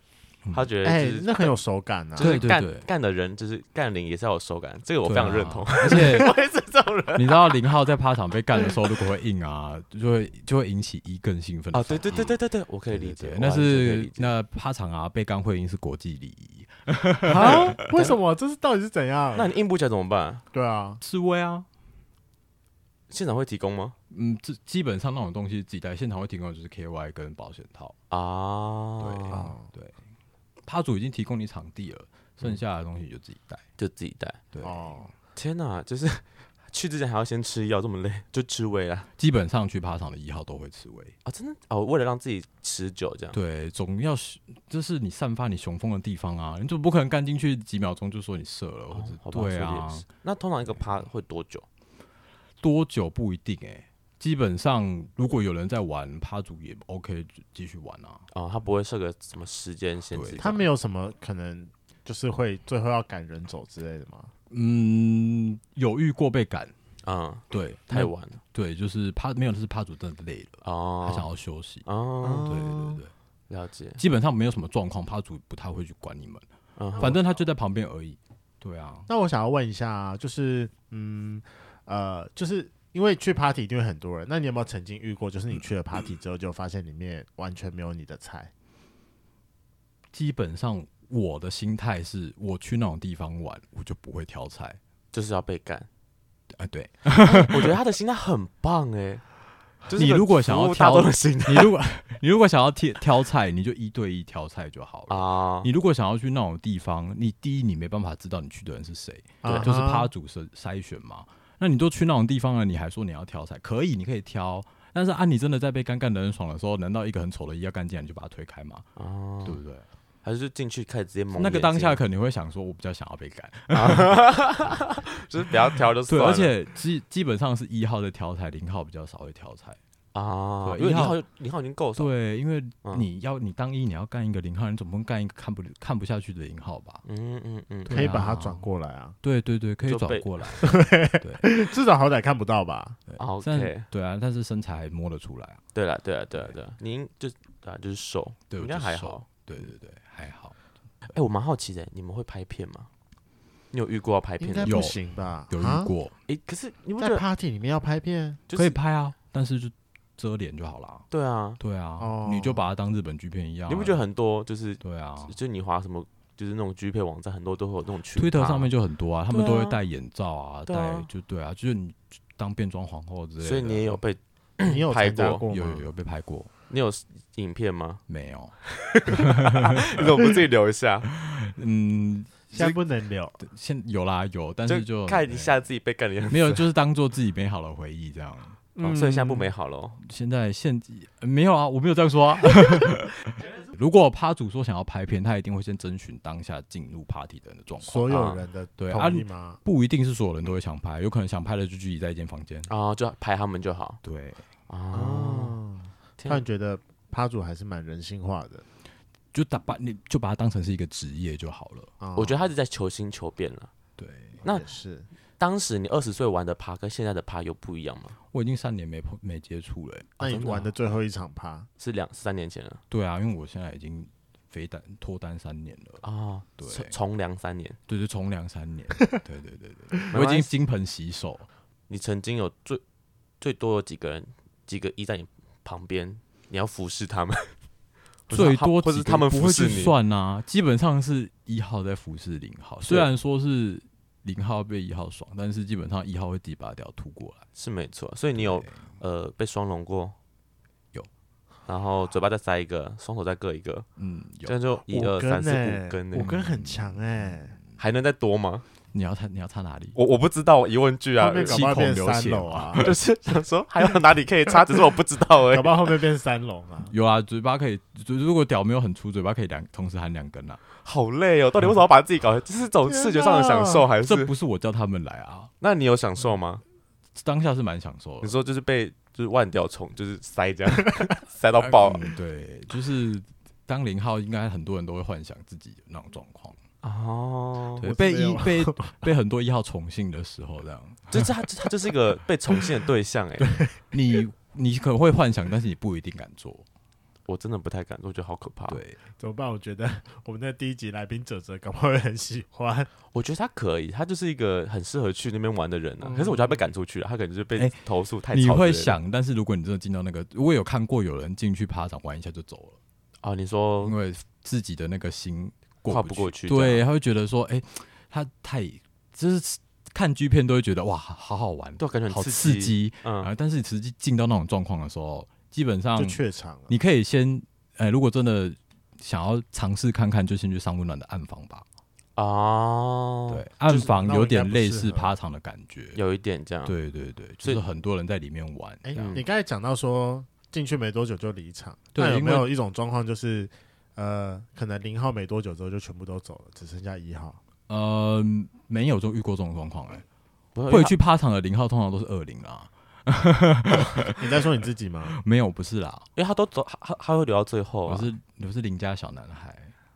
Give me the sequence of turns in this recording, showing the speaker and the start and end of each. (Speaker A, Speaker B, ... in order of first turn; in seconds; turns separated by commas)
Speaker A: 0.5-1.6, Speaker B: 0.8-2.4, Speaker A: 2.1-7.5, Speaker C: 2.2-2.9, Speaker C: 5.0-6.3, Speaker C: 7.1-17.8, Speaker A: 11.7-14.3, Speaker B: 17.3-19.5, Speaker A: 17.3-18.2, Speaker A: 19.3-20.4, Speaker B: 20.5-21.0, Speaker C: 21.0-21.7, Speaker A: 23.1-23.9, Speaker C: 24.1-27.9, Speaker A: 28.1-29.5, Speaker C: 29.0-29.9, Speaker B: 29.3-29.7, Speaker C: 30.6-33.6, Speaker A: 33.8-34.4, Speaker C: 34.5-35.0, Speaker B: 34.6-35.1, Speaker A: 35.4-39.1, Speaker C: 39.2-41.1, Speaker A: 41.2-43.4, Speaker C: 43.3-50.0, Speaker A: 48.9-51.6, Speaker C: 52.6-58.2, Speaker A: 58.3-60.6, Speaker C: 60.1-60.5, Speaker B: 60.4-64.3, Speaker C: 64.5-66.7, Speaker A: 67.0-68.4, Speaker C: 67.5-71.8, Speaker A: 70.6-71.3, Speaker A: 71.8-72.6, Speaker B: 72.2-73.0, Speaker C: 72.5-73.1, Speaker A: 73.5-74.0, Speaker C: 74.0-76.4, Speaker A: 76.8-77.2, Speaker C: 77.0-79.1, Speaker B: 79.1-88.5, Speaker C: 90.1-94.8, Speaker A: 95.1-95.9, Speaker C: 96.5-97.7, Speaker A: 97.1-99.2, Speaker A: 99.8-101.7, Speaker C: 99.9-118.9, Speaker A: 105.1-105.7, Speaker B: 109.4-110.1, Speaker A: 109.4-109.7, Speaker A: 119.0-119.6, Speaker C: 119.4-119.8, Speaker A: 120.2-122.0, Speaker C: 121.3-124.7, Speaker A: 123.7-126.5, Speaker C: 126.1-129.8, Speaker A: 130.1-132.1, Speaker C: 130.6-131.2, Speaker C: 132.0-137.0, Speaker A: 137.0-138.3, Speaker C: 137.9-138.7, Speaker B: 137.9-139.2, Speaker C: 139.2-141.4, Speaker A: 139.8-140.6, Speaker B: 140.6-143.0, Speaker C: 143.1-145.6, Speaker A: 143.2-143.8, Speaker A: 145.7-149.2, Speaker C: 148.5-150.5, Speaker A: 151.1-152.9, Speaker A: 153.7-154.8, Speaker B: 154.4-155.9, Speaker C: 154.6-155.0, Speaker C: 155.5-156.1, Speaker A: 156.3-157.2, Speaker B: 157.0-158.4, Speaker A: 158.5-158.8, Speaker C: 158.5-161.1, Speaker A: 161.1-161.6, Speaker C: 161.6-164.0, Speaker B: 162.0-162.7, Speaker A: 163.7-168.7, Speaker C: 164.8-165.3, Speaker C: 168.1-174.0, Speaker A: 169.3-169.8, Speaker A: 170.7-171.1, Speaker A: 173.4-175.4, Speaker B: 174.6-175.9, Speaker C: 175.5-176.5, Speaker A: 176.7-178.0, Speaker C: 178.1-180.0, Speaker A: 178.7-181.1, Speaker C: 181.1-182.8, Speaker B: 182.5-183.4, Speaker C: 183.4-185.6, Speaker A: 184.7-186.6, Speaker C: 186.3-188.6, Speaker B: 188.8-189.5, Speaker A: 188.8-190.0, Speaker C: 190.0-202.7, Speaker B: 197.8-199.6, Speaker A: 198.1-198.4, Speaker A: 202.7-204.0, Speaker C: 204.0-204.4, Speaker A: 204.7-205.6, Speaker B: 204.9-208.6, Speaker A: 206.2-206.4, Speaker C: 209.3-211.9, Speaker B: 212.0-212.4, Speaker A: 212.1-213.7, Speaker C: 214.0-214.4, Speaker B: 214.4-215.1, Speaker A: 215.4-218.2, Speaker C: 218.3-220.2, Speaker A: 220.2-220.7, Speaker B: 220.2-221.7, Speaker A: 221.8-222.8, Speaker C: 222.9-226.0, Speaker A: 226.0-227.8, Speaker C: 226.6-226.9, Speaker C: 227.9-231.5, Speaker A: 230.1-230.5, Speaker A: 231.9-232.8, Speaker A: 233.4-237.5, Speaker A: 238.3-239.9, Speaker C: 238.3-247.4, Speaker A: 242.8-243.1, Speaker A: 247.6-250.1, Speaker C: 248.3-248.8, Speaker A: 251.7-253.8, Speaker C: 254.0-254.5, Speaker A: 254.4-256.3, Speaker B: 254.9-257.6, Speaker C: 256.1-257.4, Speaker A: 257.8-258.6, Speaker C: 258.9-259.9, Speaker A: 259.9-261.6, Speaker B: 261.2-262.9, Speaker C: 261.4-262.9, Speaker A: 262.8-265.9, Speaker B: 265.5-266.9, Speaker C: 266.9-270.6, Speaker A: 270.8-274.3, Speaker B: 272.9-273.9, Speaker C: 274.0-275.5, Speaker A: 275.6-276.6, Speaker C: 277.1-278.3, Speaker A: 278.2-282.1, Speaker C: 281.6-286.6, Speaker A: 286.8-287.9, Speaker C: 287.8-291.3, Speaker B: 287.8-289.1, Speaker A: 291.1-293.6, Speaker C: 293.9-296.6, Speaker A: 297.3-298.8, Speaker C: 298.7-299.0, Speaker B: 299.2-302.9, Speaker A: 303.1-308.9, Speaker B: 306.1-306.3, Speaker C: 308.3-312.8, Speaker A: 313.2-313.9, Speaker C: 313.8-331.6, Speaker A: 315.9-316.8, Speaker A: 321.8-323.3, Speaker B: 325.9-326.7, Speaker A: 332.1-333.9, Speaker C: 333.3-336.0, Speaker B: 333.9-335.1, Speaker A: 335.9-336.7, Speaker C: 336.6-339.2, Speaker B: 338.8-347.4, Speaker A: 338.9-339.2, Speaker C: 341.9-342.5, Speaker C: 347.7-350.0, Speaker A: 350.5-350.9, Speaker C: 350.7-354.4, Speaker B: 353.8-355.2, Speaker C: 355.1-356.1, Speaker A: 356.1-358.1, Speaker C: 357.9-359.7